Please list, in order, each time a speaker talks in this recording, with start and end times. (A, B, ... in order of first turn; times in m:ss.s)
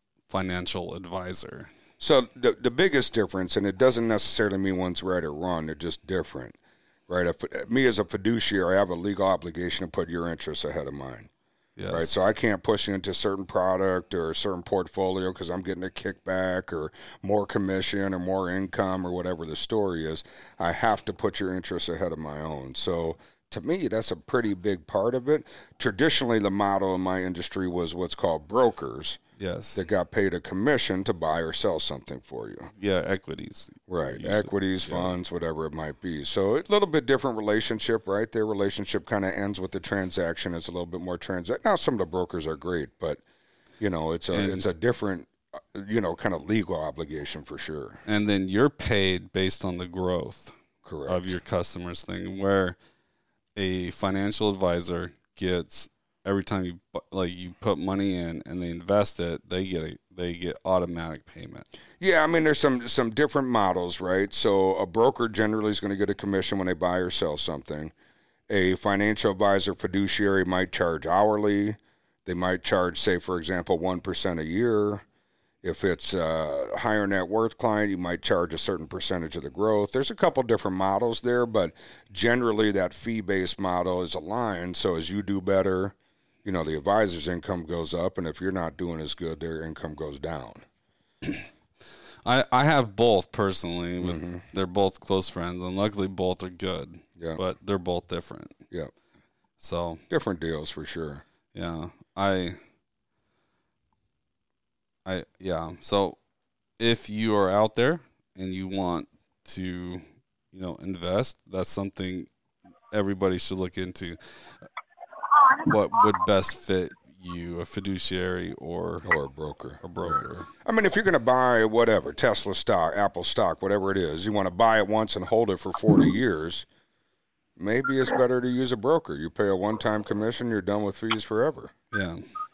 0:00.3-0:01.7 A
0:02.0-0:11.3 B
0:11.8-0:12.2 A
0:11.9-0:29.2 B
0:29.4-0:29.8 A
0:29.7-0:32.7 B
0:32.8-0:35.1 A
0:33.9-0:43.2 B
0:43.8-0:48.0 B
0:44.3-0:44.7 A
0:48.0-0:50.5 A
0:50.8-0:51.3 B
0:51.1-0:52.8 A
0:53.6-1:01.7 A
1:02.0-1:07.9 B
1:08.5-1:15.0 B
1:15.6-1:30.6 B
1:32.2-1:38.6 A
1:34.0-1:34.4 B
1:39.6-1:40.0 A
1:40.1-1:41.2 B
1:41.5-1:42.6 A
1:45.0-1:46.2 A
1:46.8-1:52.3 A
1:52.9-1:54.2 A
1:55.6-1:59.1 A
1:59.0-2:06.7 B
1:59.8-2:00.5 A
2:07.6-2:11.7 B
2:11.9-2:12.2 A